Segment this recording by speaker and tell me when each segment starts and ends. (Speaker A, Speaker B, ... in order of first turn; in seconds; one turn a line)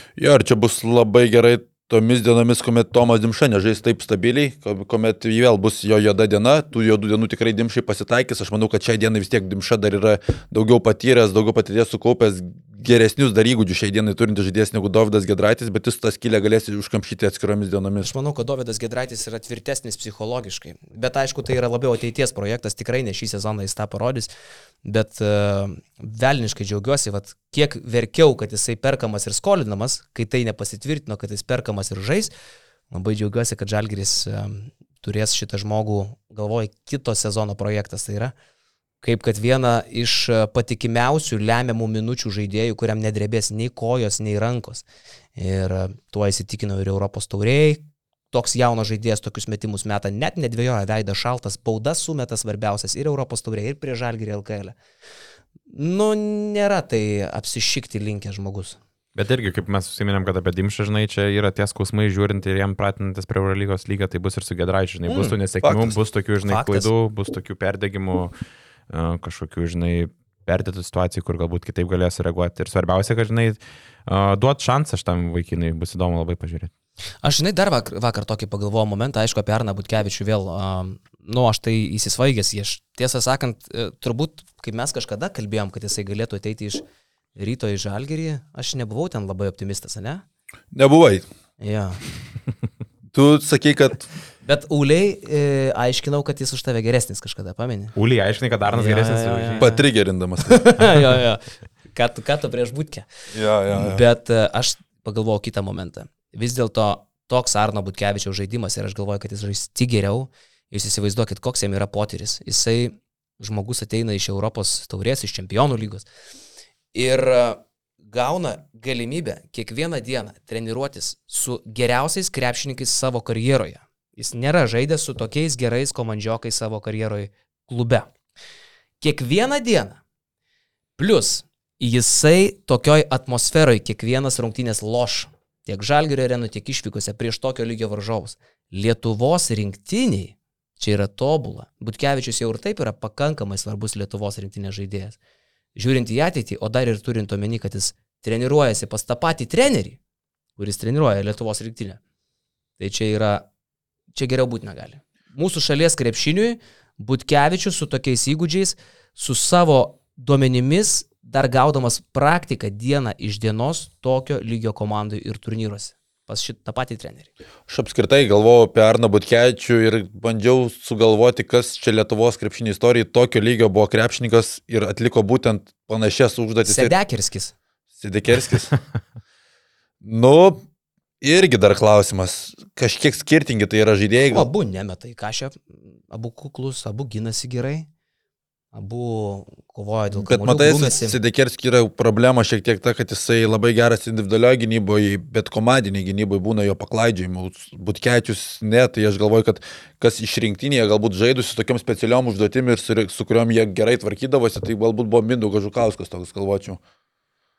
Speaker A: 0.2-18.1
Speaker B: 18.0-24.3
Speaker B: 24.8-32.3
Speaker B: 32.9-38.3
Speaker B: 39.0-44.8
Speaker B: 45.4-54.8
Speaker B: 55.7-58.8
Speaker C: 59.1-68.3
Speaker B: 65.1-65.4
Speaker A: 65.6-66.0
Speaker B: 66.5-66.9
Speaker C: 68.9-76.7
Speaker B: 77.2-86.8
Speaker B: 87.4-90.2
Speaker A: 90.7-91.2
Speaker B: 91.6-92.0
Speaker A: 93.1-94.1
Speaker B: 94.4-97.9
Speaker C: 98.0-99.7
Speaker B: 98.7-99.8
Speaker A: 99.6-100.7
Speaker B: 100.4-103.1
Speaker A: 103.3-104.0
Speaker B: 103.7-116.1
Speaker B: 116.9-128.1
Speaker B: 129.0-130.0
Speaker B: 131.0-145.2
Speaker B: 145.8-150.0
Speaker B: 150.6-152.0
Speaker B: 152.8-153.4
Speaker B: 154.1-167.3
Speaker A: 167.7-176.9
Speaker B: 176.7-177.5
Speaker A: 178.0-178.7
Speaker A: 180.0-180.6
Speaker A: 181.2-184.5
Speaker B: 184.3-187.9
Speaker B: 188.7-191.2
Speaker A: 190.2-206.8